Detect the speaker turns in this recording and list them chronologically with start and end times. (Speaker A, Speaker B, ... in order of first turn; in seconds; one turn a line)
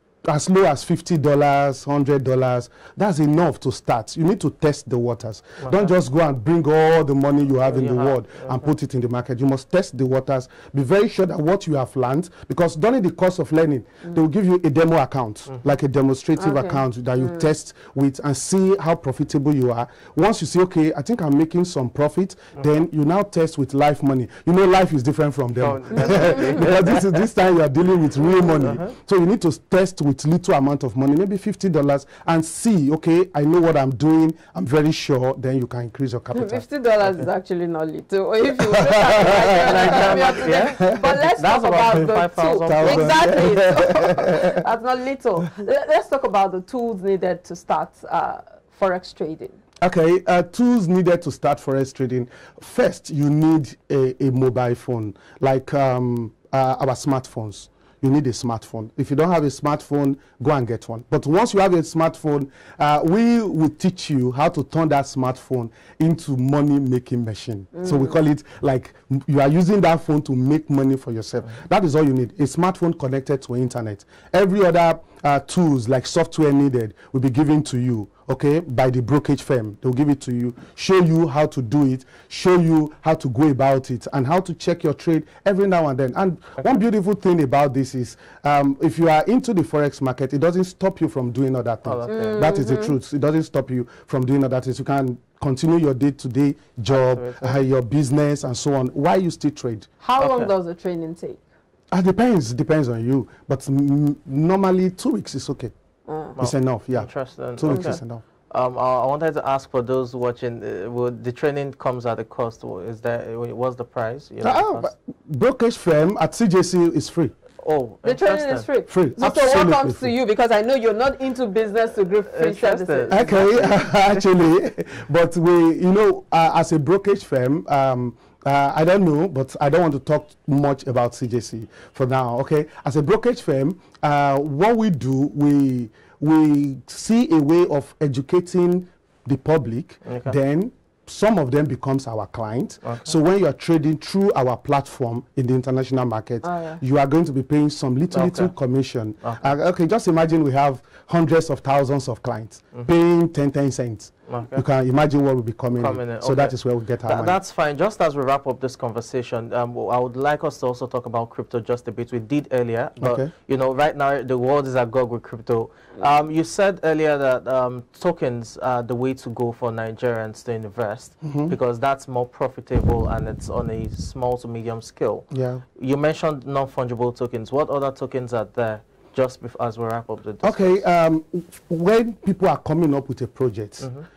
Speaker A: 0.2-36.6
Speaker B: 5.6-5.9
Speaker B: 7.7-8.7
Speaker C: 16.4-17.5
Speaker B: 25.6-27.2
Speaker C: 26.0-26.6
Speaker B: 28.2-29.0
Speaker C: 36.3-49.6
Speaker A: 38.8-41.1
Speaker B: 39.3-43.5
Speaker A: 42.7-44.6
Speaker A: 49.8-99.9
Speaker C: 67.8-68.1
Speaker B: 91.8-92.5
Speaker C: 92.1-93.0
Speaker B: 96.9-97.6
Speaker C: 100.0-101.4
Speaker B: 100.2-100.5
Speaker A: 101.9-105.7
Speaker C: 106.1-106.4
Speaker B: 106.4-114.9
Speaker A: 106.4-108.2
Speaker C: 107.7-108.0
Speaker A: 114.4-117.3
Speaker B: 117.6-118.7
Speaker C: 118.0-123.6
Speaker A: 118.9-120.1
Speaker B: 122.3-123.8
Speaker A: 123.1-157.4
Speaker B: 140.1-140.3
Speaker B: 142.8-143.1
Speaker C: 146.4-146.8
Speaker B: 148.1-148.5
Speaker B: 149.2-149.5
Speaker B: 154.3-154.6
Speaker B: 155.8-180.8
Speaker A: 163.0-163.3
Speaker A: 171.2-171.6
Speaker A: 175.3-175.6
Speaker A: 180.4-183.9